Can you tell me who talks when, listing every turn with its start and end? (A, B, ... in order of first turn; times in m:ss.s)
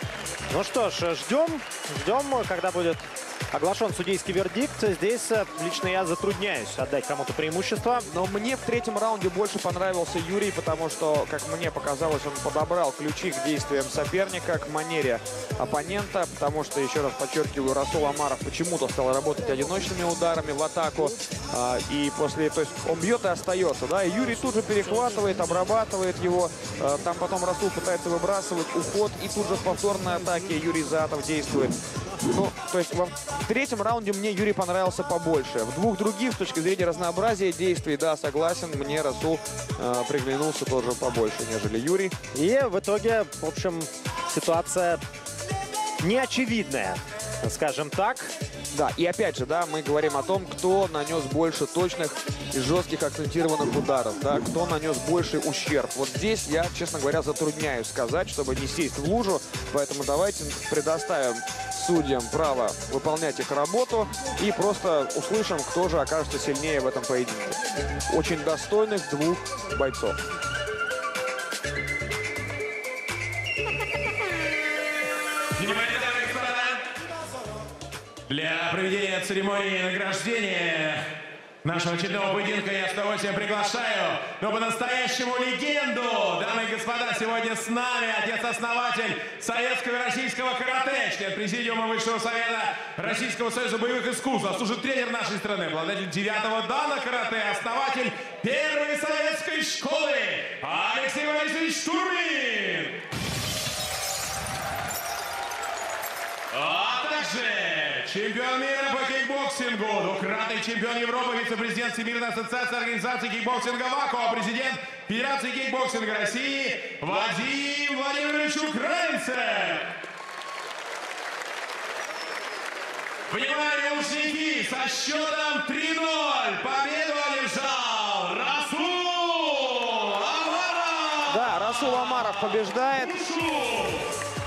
0:00.5-0:08.1 A
0:08.1-0:42.1 B
0:42.3-0:45.0 A
0:46.0-0:48.3 A
0:48.7-1:10.2 B
1:15.5-1:16.8 C
1:18.3-1:21.1 C
1:21.6-1:43.0 C
1:46.5-1:59.9 C
2:03.3-2:14.0 C
2:11.3-2:13.2 B